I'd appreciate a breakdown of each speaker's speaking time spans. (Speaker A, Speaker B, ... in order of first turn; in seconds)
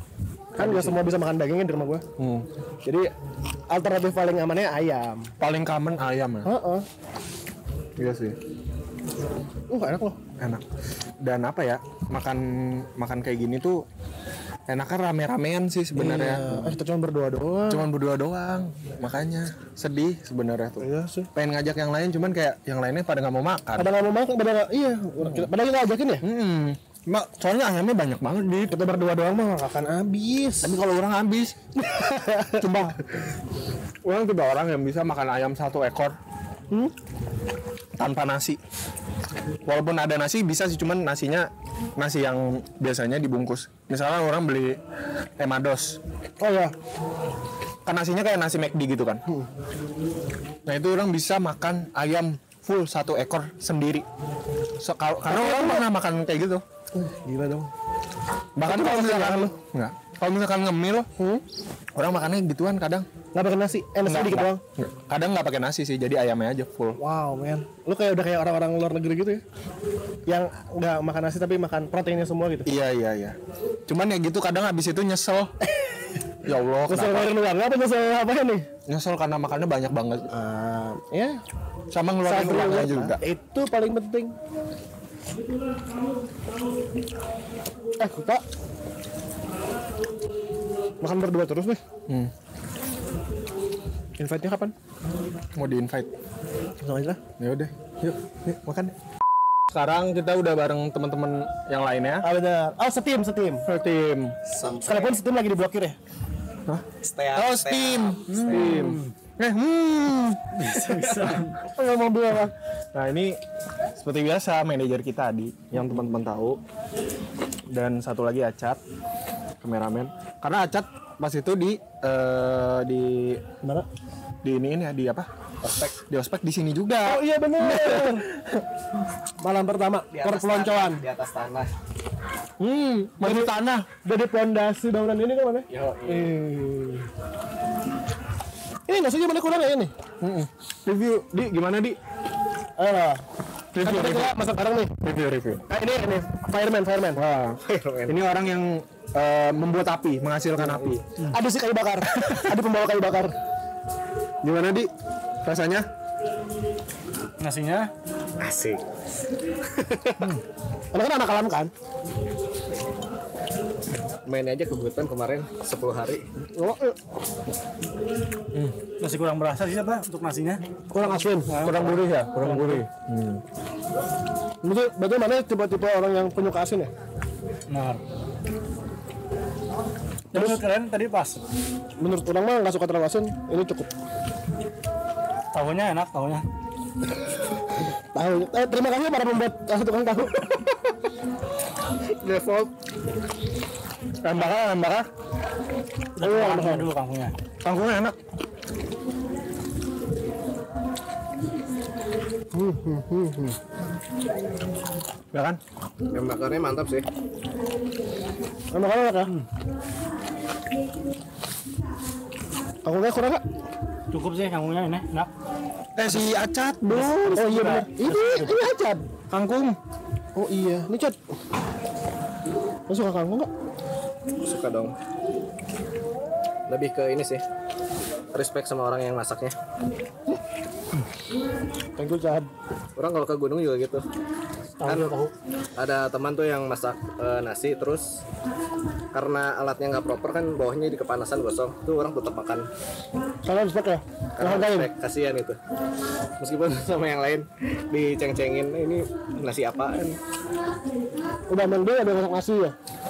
Speaker A: 0.6-1.0, 2.2-3.0, 5.4-6.5, 8.0-8.4, 10.4-10.6, 11.2-13.8, 14.7-16.8, 17.7-23.9, 25.2-25.5, 26.2-28.8, 30.6-31.6, 32.6-33.0, 34.0-36.1, 38.0-38.6, 39.6-44.8, 45.4-46.0, 47.8-49.2, 50.6-54.0, 54.8-56.6, 58.5-61.1, 61.9-63.1, 64.0-67.0, 72.6-75.5, 76.4-77.3, 78.9-80.3, 81.9-83.2, 95.5-96.1, 97.4-98.9, 99.7-102.3, 103.6-104.3, 107.3-110.6, 112.9-113.4, 114.0-116.6, 117.7-118.8, 119.6-123.4, 124.4-125.3, 126.1-128.6, 132.6-133.8, 140.2-142.0, 143.7-144.3, 145.0-145.7, 147.1-151.0, 152.2-152.5, 154.4-154.9, 155.4-155.9, 171.6-173.4, 194.2-195.1, 197.6-198.2, 205.3-205.6, 216.0-217.4, 219.3-219.8
Speaker B: 0.6-2.0, 3.7-5.3, 6.4-6.8, 9.7-10.2, 15.9-17.9, 20.8-21.3, 23.8-26.2, 28.7-30.8, 31.8-32.9, 46.4-46.7, 55.3-55.8, 56.9-57.7, 58.6-59.5, 61.2-61.4, 63.3-64.6, 67.0-69.4, 70.3-72.7, 76.9-78.7, 80.3-81.4, 82.2-84.3, 88.0-88.4, 91.0-91.8, 94.2-94.7, 96.8-97.2, 102.2-103.6, 104.8-106.0, 111.5-112.5, 127.0-128.2, 129.4-131.0, 133.2-133.5, 134.0-137.1, 138.9-139.9, 142.8-143.2, 143.8-144.9, 145.7-147.2, 151.2-153.3, 160.9-161.7, 166.5-167.0, 170.9-171.6, 174.6-176.9, 180.3-180.6, 182.0-183.9, 188.1-190.6, 196.2-196.9, 202.5-203.6, 208.7-209.3, 212.8-213.4, 217.3-219.1, 220.3-221.2, 222.9-223.5, 232.0-232.5, 243.4-244.9, 251.5-252.7
Speaker C: 104.5-105.2, 107.0-108.8, 125.6-126.0, 130.1-131.7, 135.7-136.3, 147.6-148.1, 158.4-158.8, 159.8-160.3, 164.2-166.2, 192.2-192.7, 206.1-207.1, 224.4-224.9, 226.7-227.4, 228.3-229.5, 233.0-234.1, 234.8-235.2, 235.8-238.2, 239.1-242.7, 244.4-245.6, 246.4-250.2
Speaker D: 108.6-109.1, 110.6-111.5, 157.4-157.9, 169.0-170.6, 171.5-172.8, 177.7-178.0, 180.3-181.4, 185.5-186.4, 196.2-197.4, 214.1-215.3, 216.9-218.7, 234.8-235.3